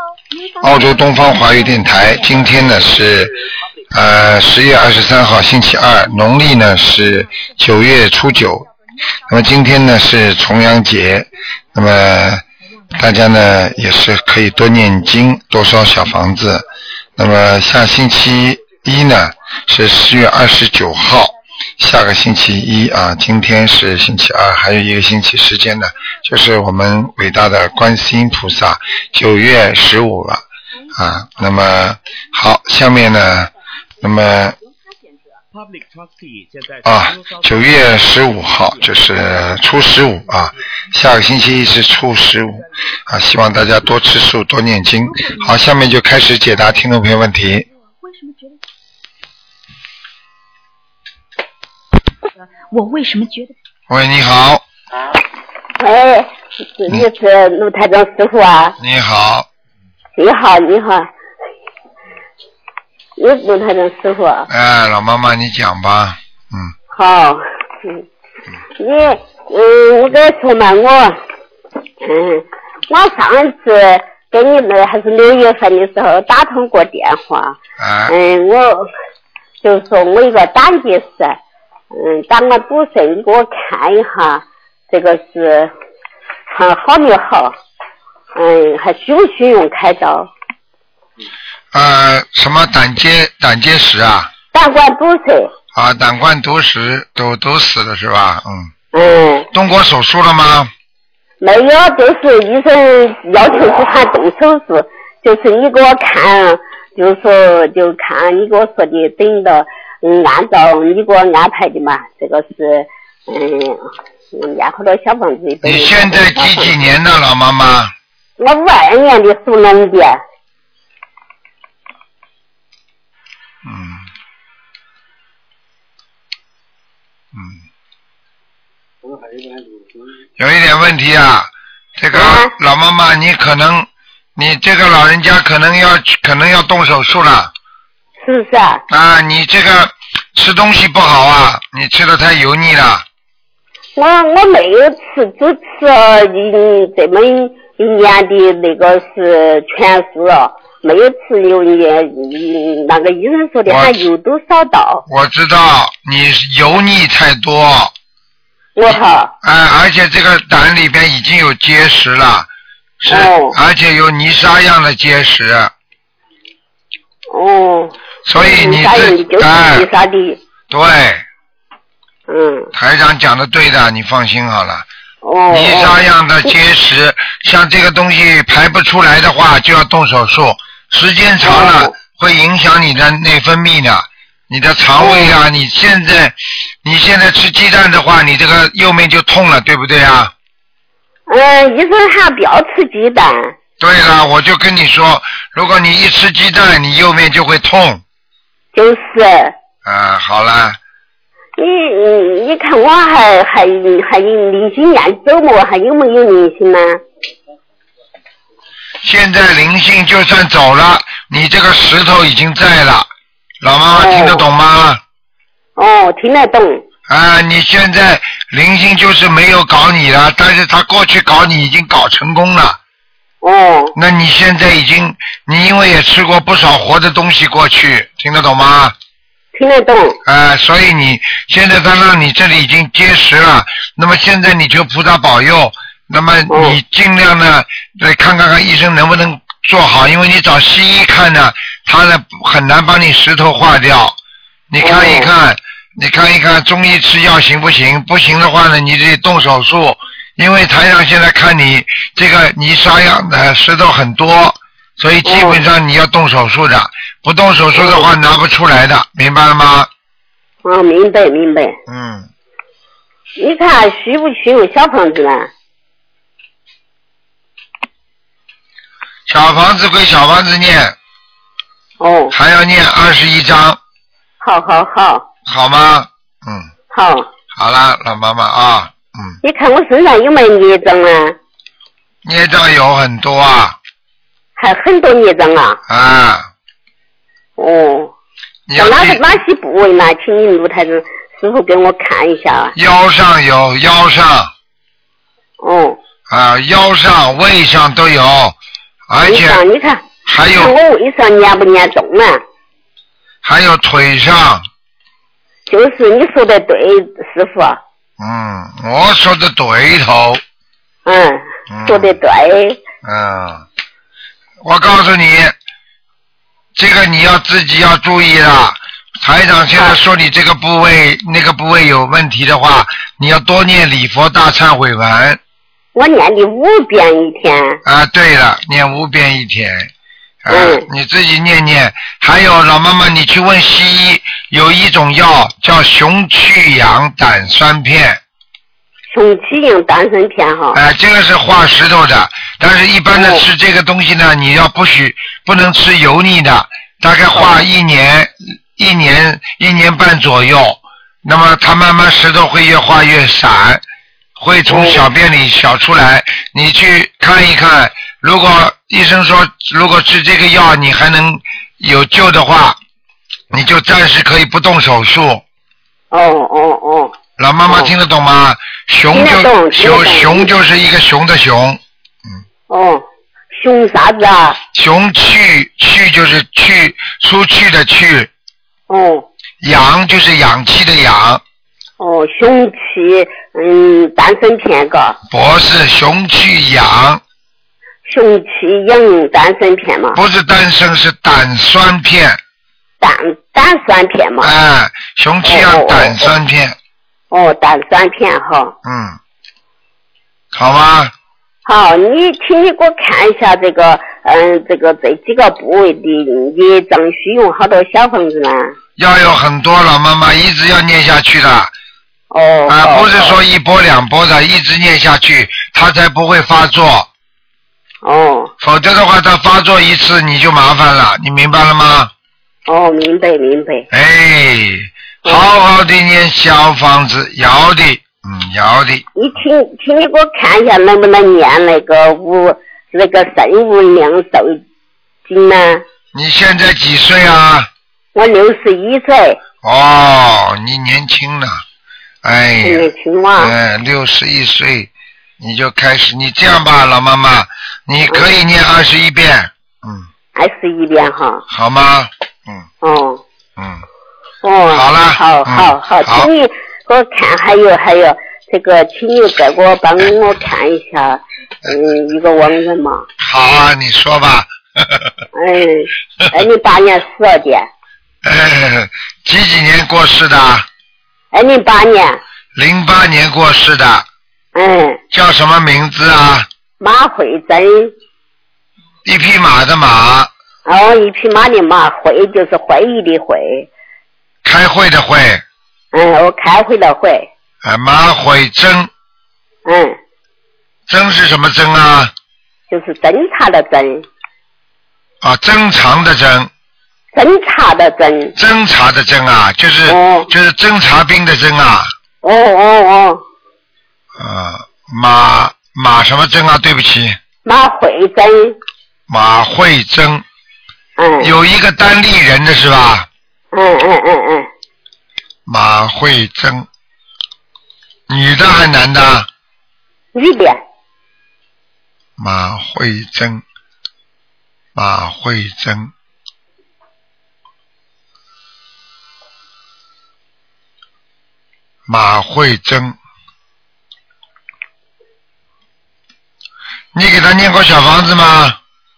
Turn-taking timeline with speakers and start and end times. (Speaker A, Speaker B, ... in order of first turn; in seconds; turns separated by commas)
Speaker A: 0.3-2.3, Speaker B: 0.6-3.3, Speaker B: 3.9-8.7, Speaker B: 9.3-16.6, Speaker B: 17.2-30.4, Speaker B: 30.9-34.6, Speaker B: 36.8-47.7, Speaker A: 45.0-45.6, Speaker A: 47.6-48.6, Speaker A: 52.4-53.5, Speaker B: 53.9-54.6, Speaker C: 55.8-58.8, Speaker B: 58.8-59.5, Speaker C: 60.1-61.1, Speaker C: 63.2-64.5, Speaker B: 64.5-66.7, Speaker C: 66.9-68.0, Speaker C: 68.8-71.2, Speaker C: 72.0-78.9, Speaker B: 77.8-78.2, Speaker C: 79.6-81.4, Speaker C: 81.9-85.7, Speaker C: 86.5-87.6, Speaker C: 88.3-90.3, Speaker B: 91.7-94.3, Speaker C: 94.5-95.5, Speaker B: 95.7-98.7, Speaker C: 98.9-99.5, Speaker B: 99.5-100.7, Speaker C: 101.4-116.7, Speaker B: 115.6-117.9, Speaker C: 118.4-120.2, Speaker B: 123.6-124.1, Speaker B: 127.3-127.6, Speaker B: 130.4-137.5, Speaker C: 132.1-132.5, Speaker C: 138.2-138.8, Speaker B: 138.9-143.1, Speaker C: 144.0-155.1, Speaker B: 153.7-153.9, Speaker B: 155.1-157.9, Speaker C: 158.8-159.3, Speaker B: 158.9-162.5, Speaker B: 163.0-165.7, Speaker C: 163.1-163.6, Speaker C: 167.3-170.4, Speaker B: 168.3-169.9, Speaker B: 170.7-171.2, Speaker C: 172.3-172.7, Speaker B: 172.7-174.9, Speaker C: 175.2-176.0, Speaker B: 175.5-190.3, Speaker C: 181.4-181.9, Speaker C: 185.0-185.3, Speaker C: 191.3-193.5, Speaker B: 193.8-198.0, Speaker C: 198.7-199.6, Speaker B: 199.8-200.8, Speaker C: 201.6-207.0, Speaker B: 209.0-213.1, Speaker B: 213.6-215.0, Speaker C: 213.9-214.5, Speaker C: 215.8-216.8, Speaker B: 217.1-222.8, Speaker C: 223.4-223.9, Speaker B: 224.0-228.9, Speaker C: 229.6-230.2, Speaker B: 230.2-244.2, Speaker C: 236.5-236.8, Speaker B: 244.7-259.9, Speaker C: 244.8-245.3, Speaker C: 255.2-255.6, Speaker C: 257.7-258.1, Speaker C: 260.6-261.8, Speaker B: 261.9-262.3, Speaker C: 263.4-265.5, Speaker B: 269.3-271.0, Speaker C: 272.0-272.3, Speaker B: 272.3-273.8, Speaker C: 274.4-275.3, Speaker B: 275.5-276.7, Speaker C: 276.9-277.3, Speaker B: 277.5-279.4, Speaker C: 279.4-281.4, Speaker B: 282.2-283.8, Speaker C: 284.6-285.8, Speaker B: 285.9-286.5, Speaker C: 287.6-288.1, Speaker B: 288.7-289.2, Speaker C: 288.8-292.7, Speaker B: 292.8-294.5, Speaker C: 295.6-296.0, Speaker B: 296.3-298.6, Speaker B: 299.1-299.6, Speaker C: 299.2-302.4, Speaker B: 300.3-300.7, Speaker B: 303.4-304.7, Speaker C: 305.7-307.8, Speaker B: 308.2-310.4, Speaker C: 311.1-312.8, Speaker B: 311.7-312.2, Speaker B: 313.0-313.6, Speaker B: 314.6-315.6, Speaker B: 316.8-325.4, Speaker C: 325.9-327.8, Speaker B: 327.9-329.9, Speaker B: 330.4-338.2, Speaker C: 330.5-330.9, Speaker C: 339.1-340.8, Speaker B: 340.7-353.8, Speaker C: 343.1-343.4, Speaker C: 347.3-347.6, Speaker B: 354.4-362.8, Speaker C: 354.7-355.1, Speaker B: 363.5-365.4, Speaker C: 366.1-367.1, Speaker B: 367.4-371.8, Speaker C: 367.7-367.9, Speaker C: 369.1-370.5, Speaker C: 372.7-374.6, Speaker B: 374.7-378.3, Speaker C: 378.9-379.3, Speaker B: 379.6-381.4, Speaker C: 382.0-385.2, Speaker B: 385.3-387.2, Speaker C: 388.1-390.2, Speaker B: 390.1-392.4, Speaker C: 393.0-394.5, Speaker B: 394.4-396.8, Speaker C: 395.4-396.3, Speaker C: 397.3-398.8, Speaker B: 398.9-399.2, Speaker B: 400.5-401.1, Speaker C: 401.6-408.7, Speaker B: 409.0-411.7, Speaker C: 412.3-413.4, Speaker B: 412.7-417.1, Speaker C: 418.0-418.5, Speaker B: 418.6-422.1, Speaker C: 422.7-423.9, Speaker B: 423.9-429.1, Speaker C: 429.1-434.6, Speaker C: 435.3-435.8, Speaker B: 436.1-437.7, Speaker C: 438.1-439.4, Speaker B: 439.6-441.6, Speaker B: 442.2-444.9, Speaker C: 442.6-443.6, Speaker B: 445.4-450.1, Speaker C: 450.4-451.4, Speaker B: 451.5-452.7, Speaker C: 452.8-453.2, Speaker B: 453.6-453.8, Speaker C: 454.4-463.1, Speaker B: 454.7-456.3, Speaker B: 463.2-465.1, Speaker C: 465.3-467.7, Speaker B: 468.2-470.7, Speaker C: 471.3-472.2, Speaker B: 472.6-474.1, Speaker C: 474.6-475.0, Speaker B: 475.1-476.5, Speaker C: 476.8-477.9, Speaker B: 479.1-480.3, Speaker C: 480.7-483.7, Speaker B: 484.4-485.4, Speaker C: 485.9-487.3, Speaker B: 487.6-488.9, Speaker C: 489.7-490.0, Speaker B: 490.9-492.1, Speaker C: 492.7-494.1, Speaker B: 495.2-496.5, Speaker C: 497.1-498.3, Speaker B: 498.4-501.9, Speaker C: 499.9-500.3, Speaker C: 502.2-503.2, Speaker B: 504.2-507.2, Speaker C: 507.4-508.6, Speaker B: 509.1-510.2, Speaker C: 511.0-511.4, Speaker B: 511.2-513.1, Speaker C: 513.5-514.5, Speaker B: 515.5-516.7, Speaker B: 518.1-519.3, Speaker C: 520.1-520.6, Speaker B: 522.2-523.4, Speaker B: 524.8-525.9, Speaker B: 531.9-533.0, Speaker B: 536.9-538.6